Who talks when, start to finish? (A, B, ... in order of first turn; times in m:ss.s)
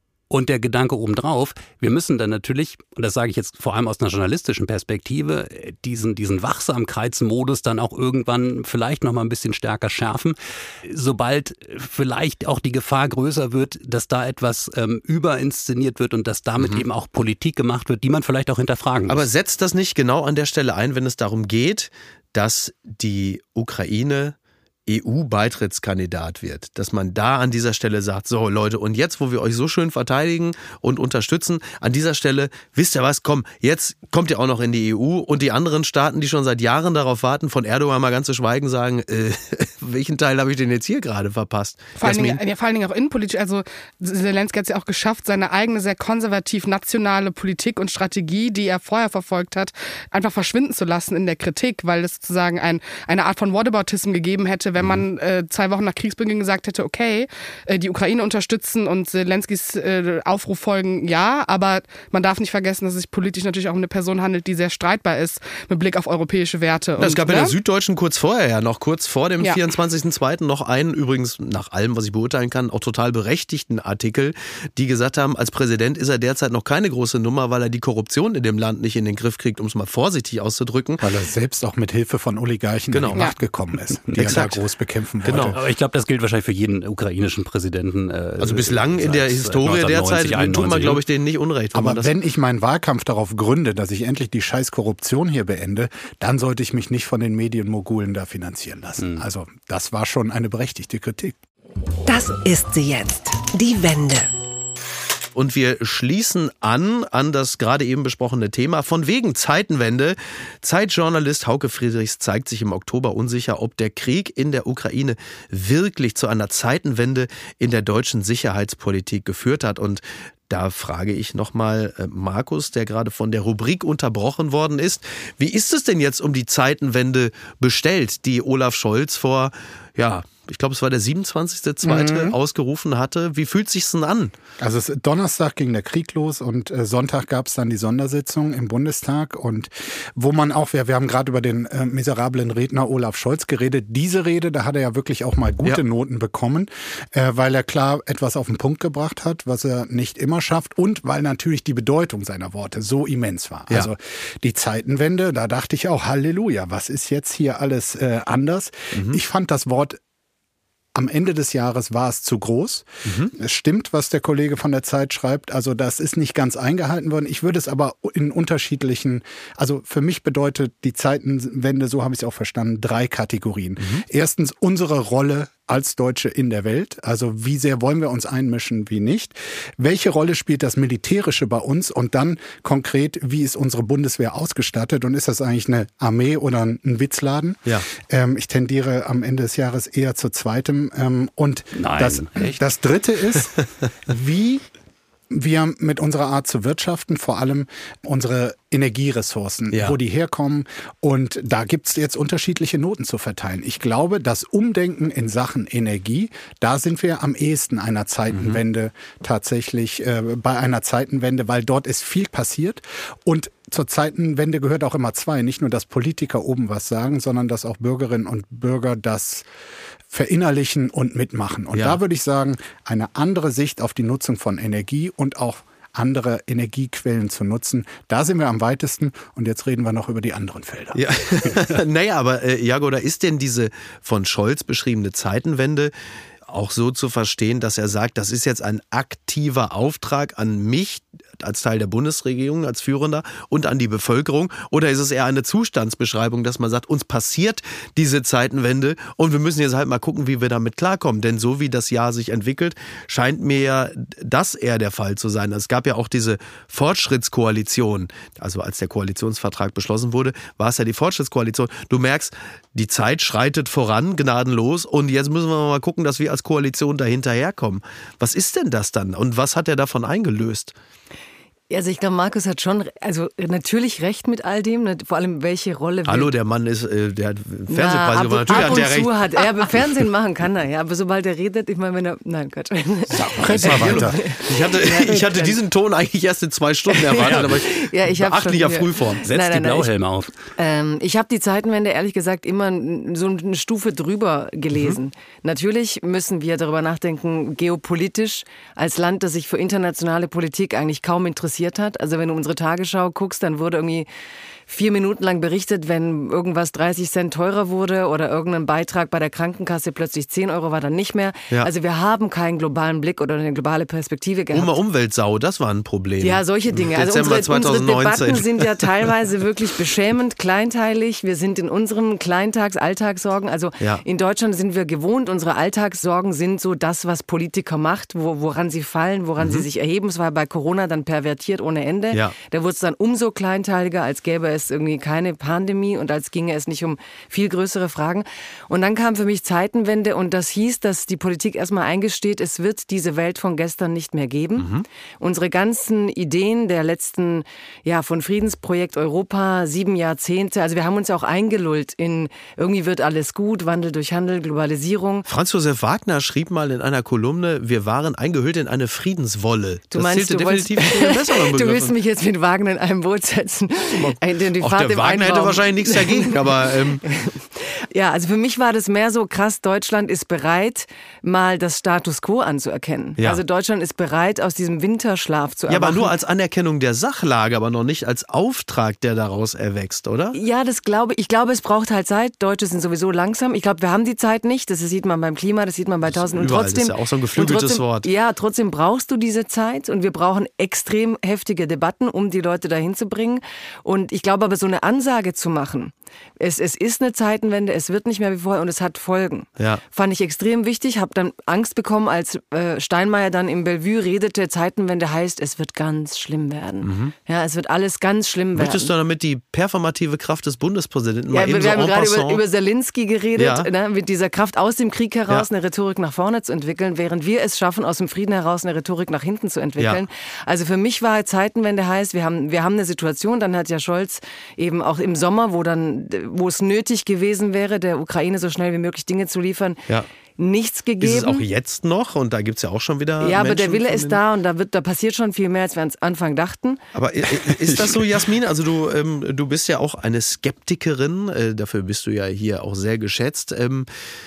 0:00.3-0:19.2 A
0:19.1-0:24.4 B
0:24.9-0:42.4 B
0:42.0-1:07.5 C
1:07.0-1:21.0 B
1:21.0-1:25.6 D
1:22.9-1:23.3 B
1:24.1-1:24.6 B
1:25.2-1:25.6 B
1:25.3-1:31.0 A
1:28.4-1:32.1 B
1:31.7-1:41.4 D
1:42.0-1:44.3 E
1:45.3-2:14.3 B
2:11.8-2:12.4 D
2:14.6-2:40.0 D
2:38.9-2:39.2 B
2:40.9-3:14.6 D
2:43.0-2:43.3 B
3:11.7-3:12.6 A
3:15.3-3:39.5 D
3:19.7-3:20.0 B
3:28.3-3:28.6 B
3:40.1-3:51.6 D
3:41.7-3:42.0 B
3:50.9-3:55.9 B
3:56.5-4:30.7 B
4:31.7-4:36.3 F
4:36.0-4:39.1 B
4:37.7-4:45.6 F
4:43.1-4:44.3 D
4:43.6-4:49.2 B
4:46.9-4:49.9 F
4:47.2-4:47.5 A
4:49.3-4:50.3 A
4:50.6-5:04.1 F
4:54.7-4:55.0 B
5:04.7-5:14.7 F
5:14.5-5:18.8 B
5:16.2-5:44.7 F
5:29.4-5:29.6 B
5:44.6-5:44.8 B
5:45.2-5:55.2 F
5:55.3-6:02.0 B
5:59.9-6:16.1 F
6:03.9-6:07.0 B
6:15.7-6:20.4 B
6:20.3-6:48.9 F
6:26.1-6:28.1 B
6:46.8-6:47.1 B
6:48.5-6:52.4 B
6:51.3-7:09.8 F
6:53.4-6:53.7 B
6:59.8-7:00.0 B
7:10.4-7:11.4 F
7:11.0-7:14.2 B
7:13.2-7:16.8 F
7:16.9-7:23.9 B